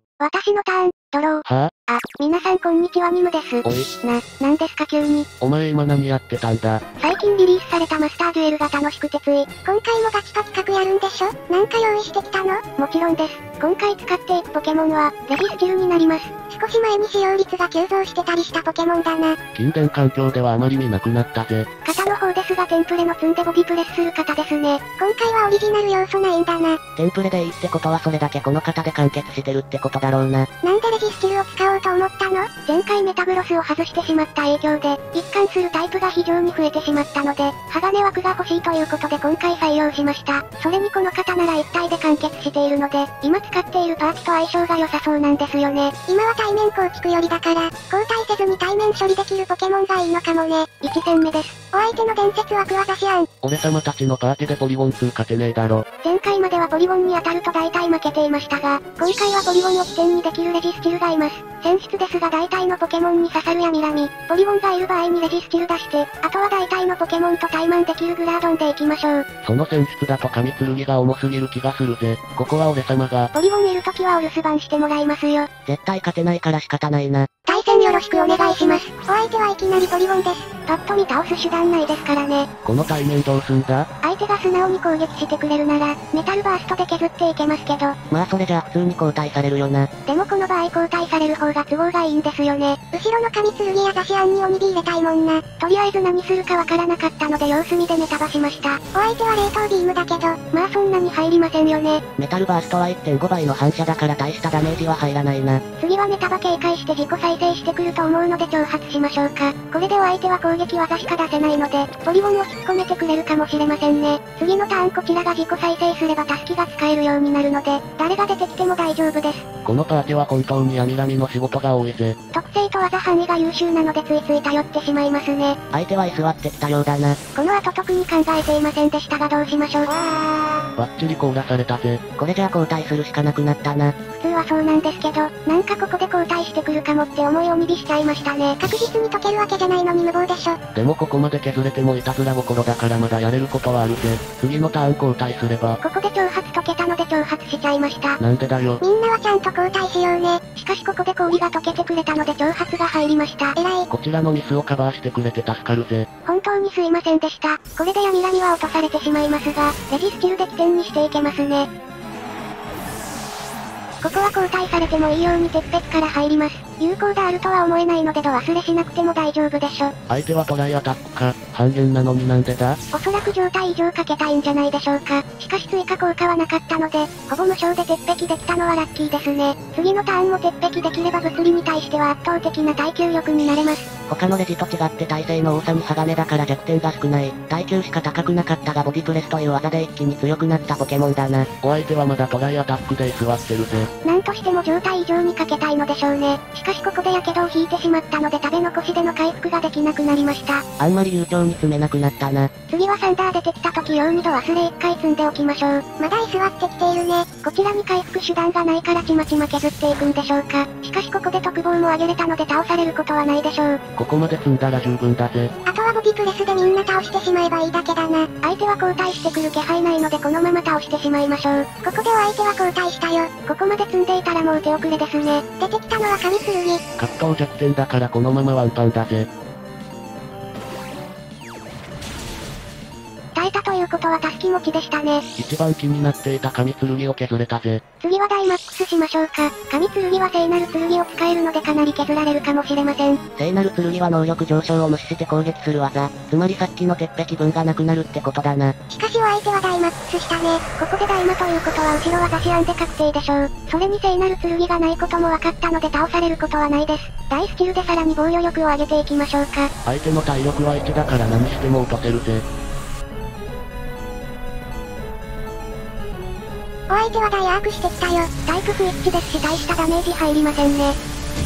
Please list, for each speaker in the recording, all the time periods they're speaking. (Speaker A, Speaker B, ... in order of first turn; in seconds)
Speaker A: 0.2-5.3, 7.0-19.4, 21.9-26.8, 30.6-53.3, 56.0-69.2, 73.3-75.5, 77.5-82.5, 84.0-88.0, 90.1-102.0, 105.8-119.5, 122.3-125.6, 127.4-130.3, 134.1-140.6, 145.8-148.2, 148.8-153.9, 156.3-161.7, 164.0-169.9, 172.9-183.9, 194.0-200.6, 202.7-213.8, 215.7-226.8, 233.3-235.2, 238.0-243.2, 248.9-259.7, 266.9-271.0
Speaker B: 1.5-1.7, 5.4-6.8, 19.6-21.7, 53.4-55.9, 69.4-73.3, 82.7-83.9, 119.7-122.2, 130.8-132.1, 140.8-145.8, 148.2-148.8, 153.9-156.1, 170.1-172.8, 191.6-193.9, 214.0-215.5, 227.0-229.3, 235.4-237.8, 259.9-262.4
Speaker C: 27.0-30.5, 75.7-77.3, 88.1-89.9, 102.2-105.6, 125.7-127.2, 132.2-133.9, 184.1-191.5, 200.8-202.5, 243.4-248.7